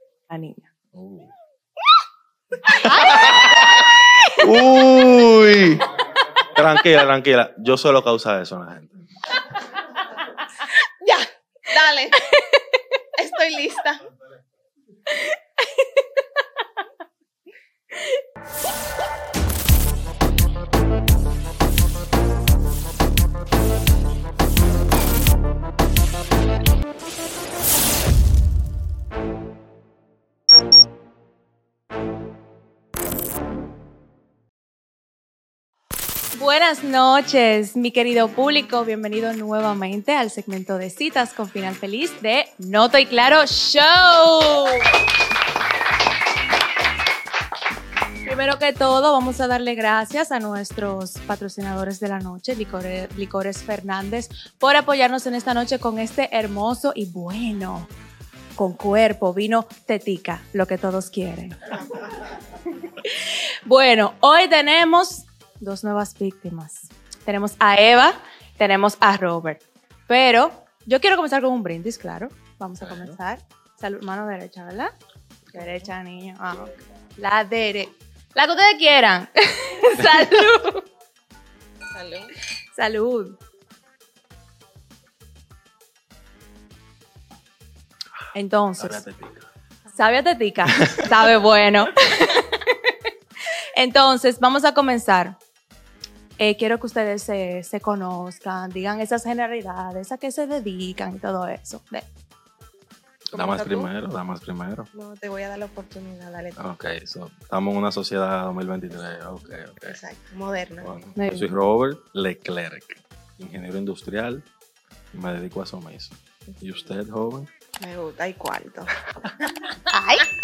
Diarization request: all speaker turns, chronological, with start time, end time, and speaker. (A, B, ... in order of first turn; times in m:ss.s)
0:00.3-0:00.6 A
0:00.9-0:01.3 B
0:02.7-0:04.4 A
0:02.8-0:03.7 B
0:04.4-0:08.9 B
0:10.7-0:12.2 C
0:12.2-0:12.8 A
0:13.2-0:14.0 C
0:15.1-0:16.2 A
0:36.3-0:44.9 A
0:48.2-0:57.9 A
0:58.6-1:01.8 A
1:03.7-1:14.9 A
1:12.8-1:13.2 B
1:15.5-1:15.9 C
1:15.5-1:20.8 A
1:21.9-1:22.3 C
1:22.7-1:23.4 A
1:28.3-1:29.0 A
1:28.8-1:29.5 B
1:29.9-1:33.0 A
1:30.7-1:31.2 B
1:33.7-1:35.4 A
1:36.4-1:42.1 A
1:43.3-1:43.9 C
1:43.3-1:44.9 B
1:44.9-1:46.6 C
1:46.6-1:50.0 B
1:48.9-1:51.0 C
1:50.8-1:54.5 B
1:51.2-1:51.5 A
1:55.1-1:57.5 B
1:56.5-1:56.8 C
1:57.8-1:59.6 C
1:59.9-2:00.3 A